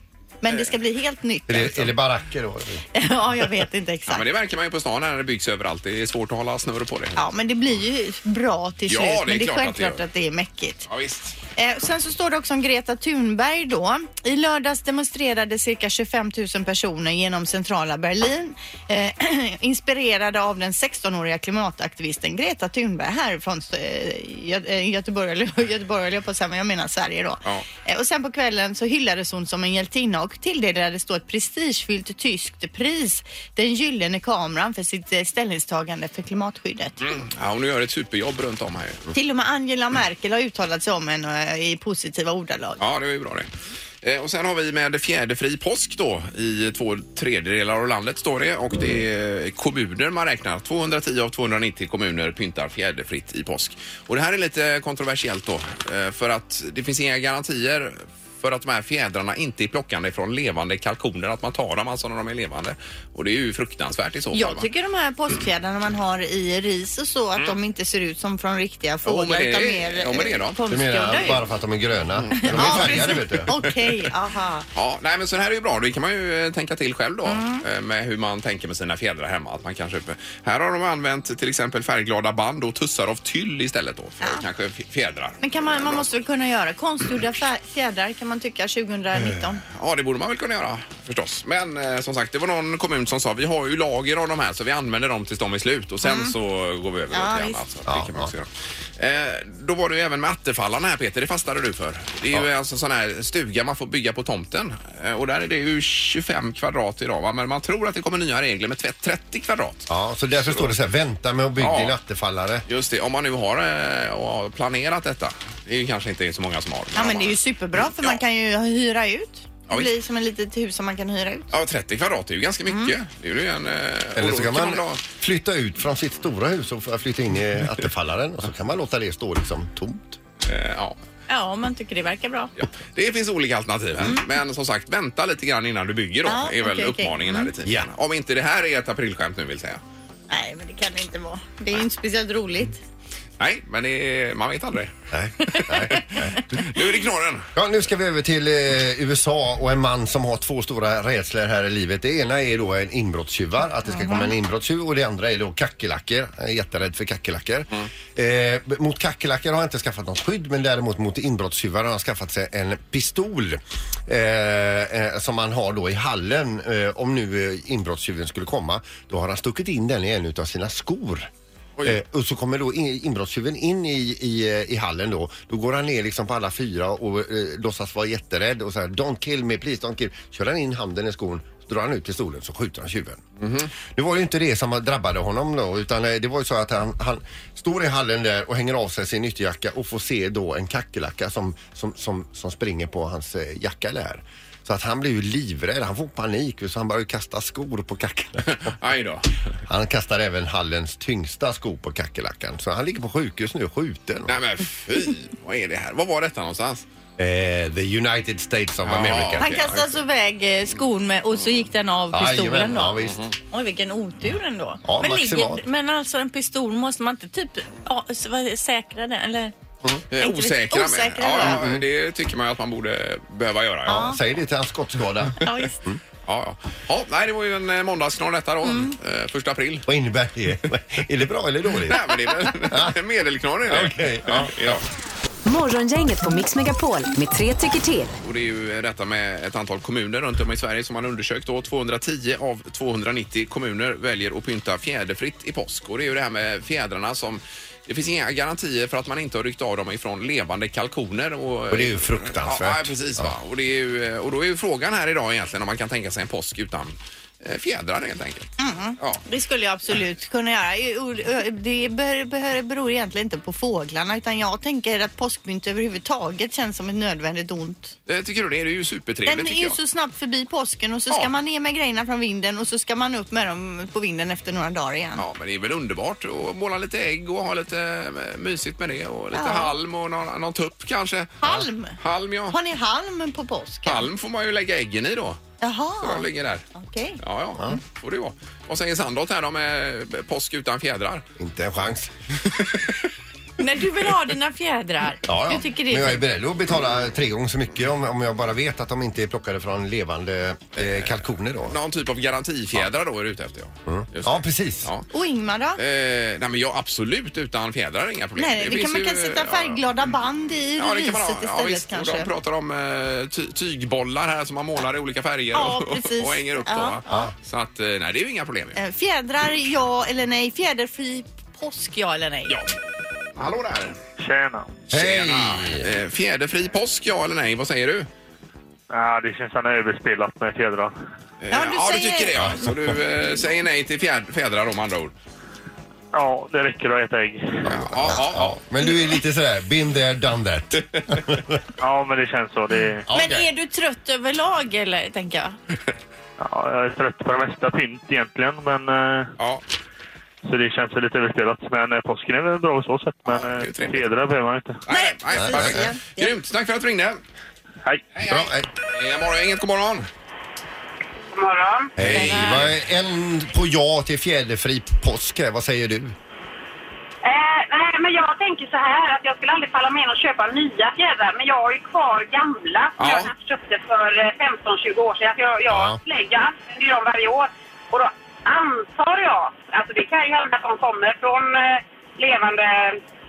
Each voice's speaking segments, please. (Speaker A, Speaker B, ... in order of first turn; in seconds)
Speaker A: 0.4-1.9, 2.9-4.2, 7.2-10.9, 11.6-37.1, 39.1-42.8, 64.3-71.4, 72.4-74.7, 77.2-77.6, 85.4-89.6, 96.0-96.3, 97.1-97.6, 117.0-121.5, 122.7-122.9, 131.3-132.5, 136.2-137.5, 140.3-142.8, 145.5-146.2, 153.9-154.3, 209.4-212.9, 213.5-219.5, 220.2-221.6, 223.9-224.2, 225.4-225.8, 228.6-228.9, 258.6-267.9, 269.2-275.2, 279.3-279.7, 281.4-282.0, 282.5-284.1, 285.6-287.2, 293.6-296.2, 305.1-305.8, 308.4-312.3, 315.5-317.3, 318.8-322.6, 331.5-332.5, 343.1-345.6, 354.9-356.3, 362.0-362.6
Speaker B: 1.5-2.8, 70.7-73.5, 97.9-98.3, 109.9-112.6, 124.2-130.2, 145.1-146.5, 147.5-171.3, 171.8-198.6, 199.7-204.4, 207.2-209.9, 212.1-213.3, 214.8-215.6, 221.4-221.8, 223.9-226.0, 229.9-232.9, 233.7-234.8, 251.7-253.3, 291.4-292.5, 295.2-301.8, 303.9-304.9, 317.1-317.3, 324.9-325.9, 337.9-341.6, 343.1-343.5, 355.4-355.9, 358.2-358.6, 362.0-366.1, 375.7-376.0
Speaker C: 4.1-7.2, 8.9-10.0, 10.9-11.3, 37.0-39.1, 42.8-43.5, 44.0-64.7, 69.0-70.6, 72.2-73.6, 74.7-86.0, 89.7-110.7, 111.6-111.9, 112.7-117.4, 121.5-125.0, 130.4-130.9, 132.6-139.8, 143.4-144.9, 145.5-147.5, 183.4-183.7, 198.4-199.3, 204.3-206.8, 208.8-209.7, 213.0-213.3, 220.1-224.1, 226.3-229.9, 231.8-234.8, 238.2-259.2, 268.1-269.8, 275.1-282.6, 283.8-285.4, 286.0-286.6, 287.2-291.2, 300.8-305.1, 305.8-309.8, 310.8-318.8, 323.4-324.0, 324.9-328.1, 331.4-335.1, 337.6-338.6, 353.2-354.1, 354.9-357.2, 358.1-360.1, 362.0-362.7, 373.0-373.3
Speaker D: 235.4-238.1
Speaker E: 324.2-324.7, 328.9-330.9, 336.1-337.6, 341.8-343.1, 346.4-349.3, 350.4-354.8
Speaker F: 361.3-361.9, 367.2-383.0